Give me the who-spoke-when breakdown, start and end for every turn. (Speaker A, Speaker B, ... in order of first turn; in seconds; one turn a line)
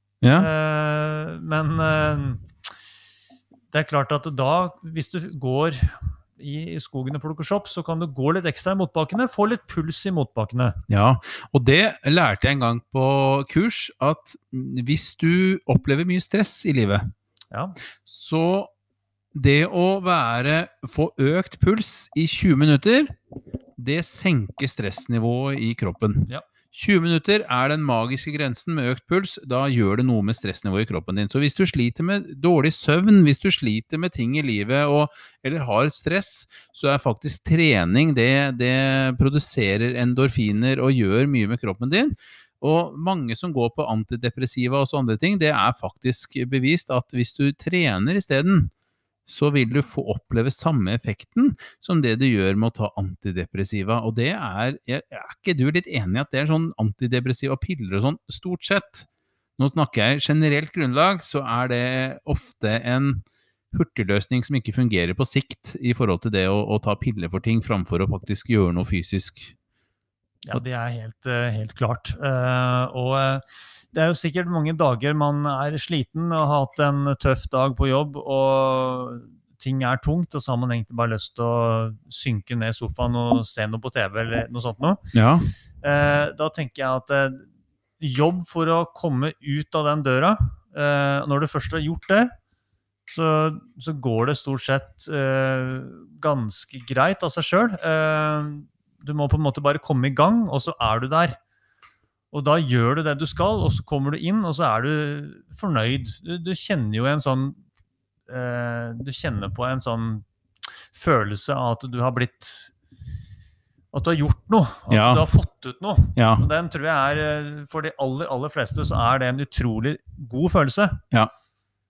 Speaker A: 0.2-0.5
Speaker B: 0.3-2.4
Speaker B: 3.7-10.8
Speaker A: 10.9-17.1
Speaker B: 17.5-17.8
Speaker A: 18.0-18.7
Speaker A: 19.3-23.1
Speaker A: 23.8-48.7
Speaker A: 49.3-59.1
Speaker A: 59.6-69.5
Speaker B: 70.4-85.0
Speaker A: 85.1-85.5
Speaker B: 85.8-87.5
Speaker B: 88.0-92.3
Speaker B: 93.1-101.4
Speaker B: 102.3-107.6
Speaker B: 108.3-110.2
Speaker B: 110.9-112.7
Speaker B: 113.9-121.0
Speaker A: 114.9-115.2
Speaker A: 116.2-116.5